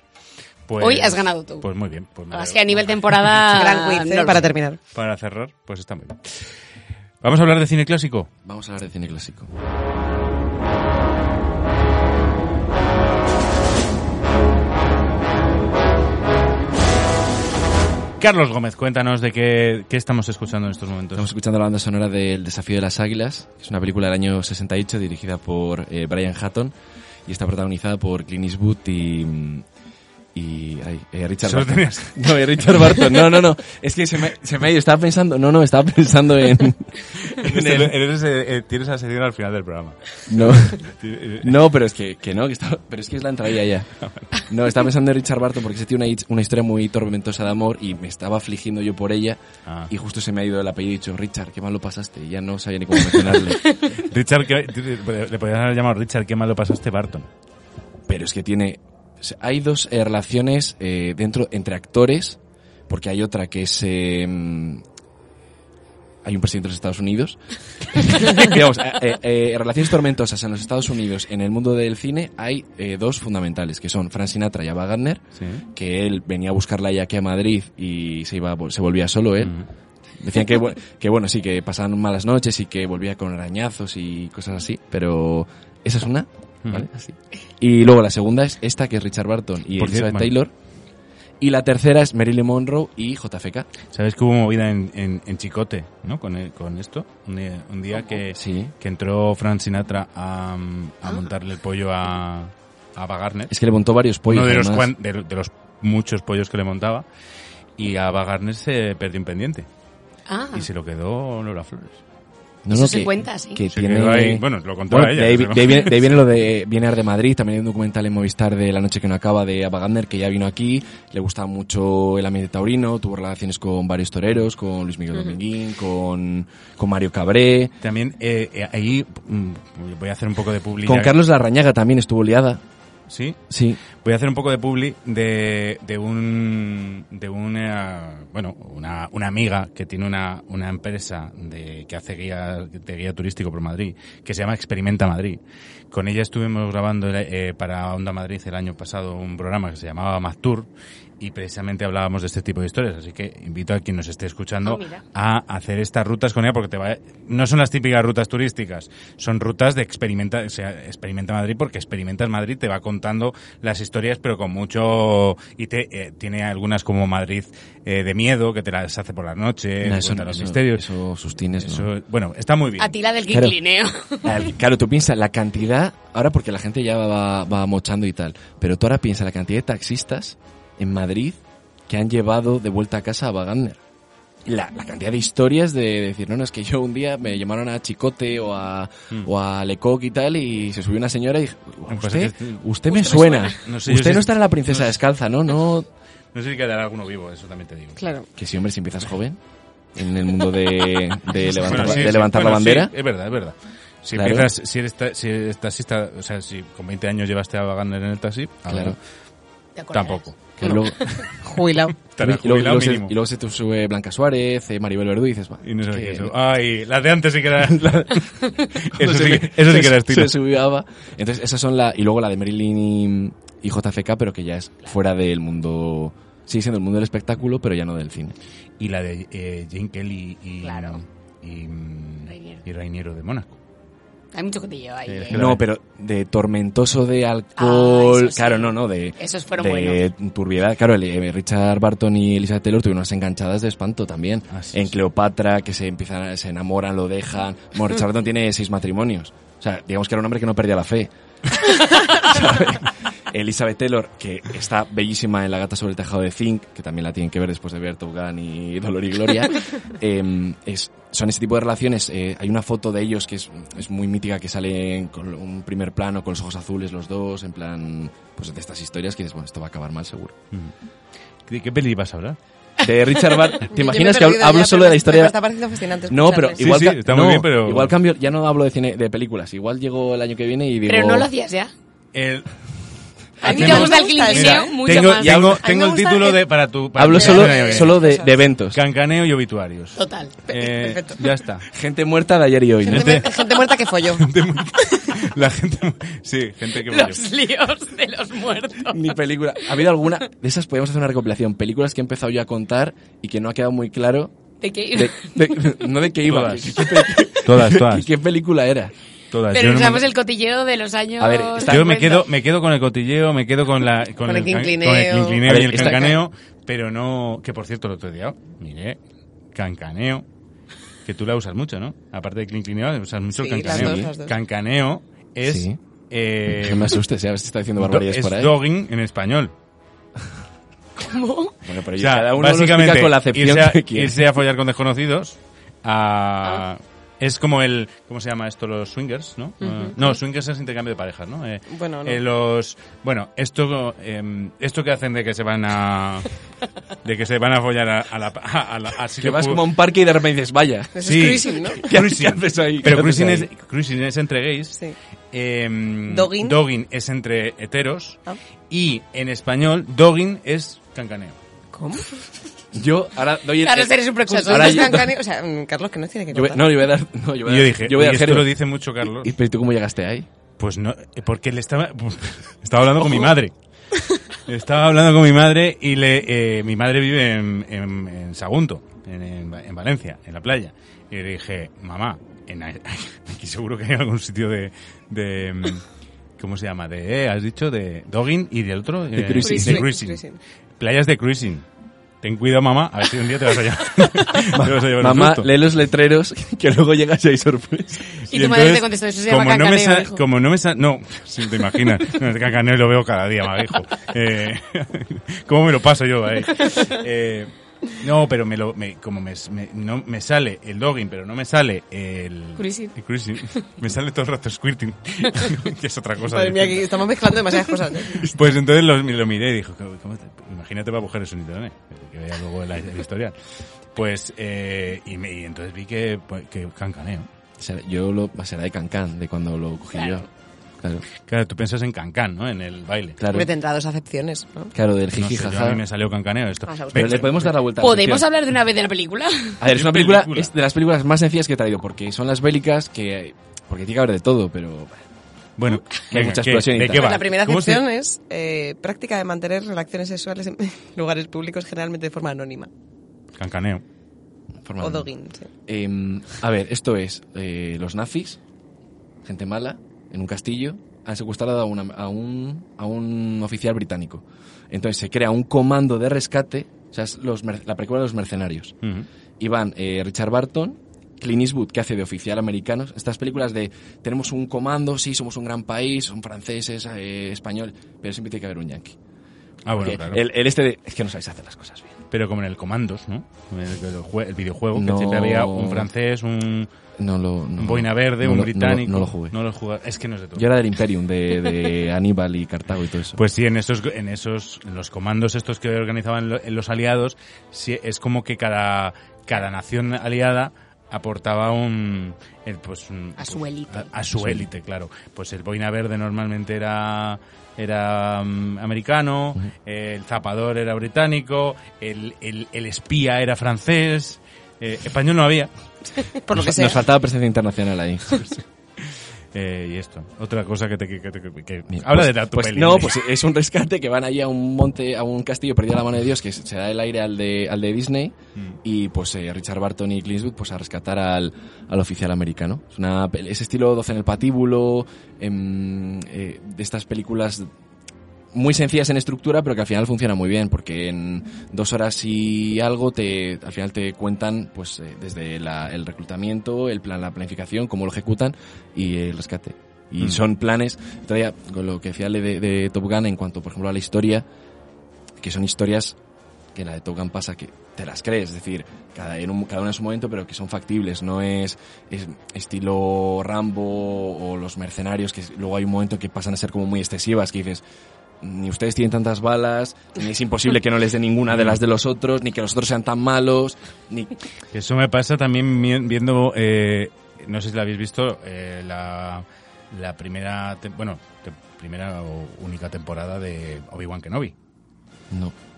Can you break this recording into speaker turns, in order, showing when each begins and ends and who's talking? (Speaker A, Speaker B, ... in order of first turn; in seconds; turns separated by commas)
Speaker A: 0.7-3.5, Speaker B: 0.8-1.7, Speaker B: 2.3-4.4, Speaker C: 3.5-4.8, Speaker A: 4.3-6.4, Speaker A: 7.2-8.3, Speaker D: 8.4-9.5, Speaker A: 18.2-21.3, Speaker D: 21.1-26.7, Speaker D: 27.3-29.6, Speaker D: 30.4-38.0, Speaker A: 31.4-32.2, Speaker A: 37.3-40.3, Speaker D: 40.3-40.9, Speaker A: 40.9-41.5, Speaker D: 41.4-53.8, Speaker A: 44.0-44.3, Speaker A: 49.7-49.9, Speaker A: 53.9-57.3, Speaker D: 58.1-64.8, Speaker D: 66.2-79.5, Speaker A: 75.4-75.6, Speaker A: 79.4-79.7, Speaker D: 80.2-90.5, Speaker A: 89.8-90.3, Speaker D: 91.4-93.7, Speaker A: 93.9-103.5, Speaker D: 98.3-98.7, Speaker D: 103.5-104.9, Speaker A: 104.3-107.0, Speaker A: 107.8-109.7, Speaker B: 110.3-110.7, Speaker A: 110.5-112.0, Speaker D: 112.7-127.7, Speaker B: 112.7-113.6, Speaker A: 113.7-116.1, Speaker A: 127.8-131.2, Speaker D: 130.8-132.6, Speaker A: 133.1-133.4, Speaker D: 133.5-133.8, Speaker A: 134.0-145.4, Speaker A: 145.9-150.7, Speaker A: 151.2-170.9, Speaker B: 154.6-155.0, Speaker D: 169.8-171.9, Speaker A: 171.6-172.9, Speaker B: 172.8-174.4, Speaker D: 173.3-173.6, Speaker D: 174.2-183.8, Speaker D: 184.4-195.9, Speaker A: 191.9-192.6, Speaker B: 192.9-193.6, Speaker A: 193.6-195.0, Speaker A: 196.3-198.0, Speaker C: 198.0-198.3, Speaker D: 198.4-199.4, Speaker D: 199.9-202.9, Speaker A: 201.6-209.0, Speaker D: 204.1-204.5, Speaker D: 208.7-209.0, Speaker B: 209.8-210.2, Speaker A: 209.9-211.3, Speaker D: 210.6-211.2, Speaker C: 211.3-212.0, Speaker A: 212.1-213.1, Speaker D: 212.2-216.3, Speaker A: 215.6-220.4, Speaker D: 218.9-228.4, Speaker A: 228.8-233.6, Speaker B: 230.6-231.0, Speaker B: 232.3-232.6, Speaker B: 234.3-235.4, Speaker A: 235.1-235.6, Speaker D: 235.3-270.4, Speaker B: 237.6-240.0, Speaker A: 244.5-245.0, Speaker A: 271.5-272.4, Speaker D: 272.8-275.4, Speaker C: 273.7-276.6, Speaker D: 276.1-281.3, Speaker A: 276.6-277.9, Speaker B: 280.9-281.7, Speaker A: 282.1-282.5, Speaker A: 283.4-288.1, Speaker B: 283.4-285.4, Speaker C: 283.4-284.8, Speaker D: 284.9-285.7, Speaker C: 285.6-286.4, Speaker D: 286.9-288.8, Speaker C: 287.0-288.3, Speaker A: 288.7-291.7, Speaker B: 290.0-290.3, Speaker C: 290.5-291.2, Speaker D: 291.7-293.3, Speaker C: 292.9-294.3, Speaker A: 292.9-297.2, Speaker B: 296.9-299.2, Speaker D: 298.9-304.3, Speaker B: 304.6-305.7, Speaker D: 304.9-308.9, Speaker A: 306.2-308.1, Speaker A: 309.3-310.1, Speaker B: 309.5-312.3, Speaker D: 311.2-312.1, Speaker A: 311.6-319.0, Speaker C: 314.3-316.0, Speaker D: 315.4-316.2, Speaker A: 319.6-320.2, Speaker A: 321.1-327.0, Speaker C: 323.3-324.3, Speaker D: 323.6-324.1, Speaker D: 325.4-325.8, Speaker D: 326.5-328.6, Speaker A: 327.8-329.5, Speaker B: 331.0-331.6, Speaker D: 331.6-334.2, Speaker A: 332.0-346.3, Speaker C: 339.6-340.0, Speaker C: 341.7-342.2, Speaker A: 347.0-349.7, Speaker D: 349.2-353.5, Speaker C: 350.9-352.0, Speaker A: 351.0-354.8, Speaker A: 355.3-361.4, Speaker C: 356.1-356.6, Speaker C: 361.7-362.2, Speaker D: 362.8-365.2, Speaker B: 363.6-364.9, Speaker C: 364.3-366.8, Speaker D: 366.3-368.6, Speaker A: 367.4-369.3, Speaker D: 369.2-370.3, Speaker A: 370.6-373.5, Speaker A: 374.5-385.8, Speaker A: 386.4-390.2, Speaker D: 389.1-389.9, Speaker C: 389.4-390.4, Speaker A: 390.8-391.6, Speaker A: 392.2-395.5, Speaker D: 394.5-398.2, Speaker A: 398.3-423.3, Speaker B: 398.3-400.2, Speaker B: 412.6-412.9, Speaker C: 416.2-418.3, Speaker A: 424.0-427.3, Speaker D: 427.6-430.3, Speaker B: 429.9-430.2, Speaker A: 431.2-433.2, Speaker D: 433.2-433.5, Speaker C: 433.3-434.7, Speaker D: 434.7-435.8, Speaker A: 435.2-437.5, Speaker C: 436.7-437.2, Speaker D: 436.9-438.3, Speaker B: 437.8-439.6, Speaker D: 439.6-445.0, Speaker A: 439.7-440.5, Speaker A: 445.6-447.9, Speaker D: 446.0-447.2, Speaker C: 446.9-452.7, Speaker A: 453.4-453.8, Speaker D: 454.6-455.1, Speaker C: 454.8-455.5, Speaker D: 455.7-458.4, Speaker D: 459.2-468.8, Speaker D: 469.4-479.0, Speaker A: 479.6-480.3, Speaker D: 479.7-482.0, Speaker A: 482.1-486.7, Speaker D: 484.7-485.9, Speaker D: 487.0-489.4, Speaker A: 487.6-490.5, Speaker D: 490.4-493.2, Speaker A: 493.2-515.5, Speaker B: 503.2-503.9, Speaker D: 504.2-504.5, Speaker C: 516.0-516.9, Speaker D: 516.3-518.3, Speaker A: 519.3-523.0, Speaker D: 521.7-537.5, Speaker D: 538.3-554.3, Speaker D: 555.2-556.0, Speaker D: 556.5-567.6, Speaker D: 568.2-574.1, Speaker A: 574.5-584.3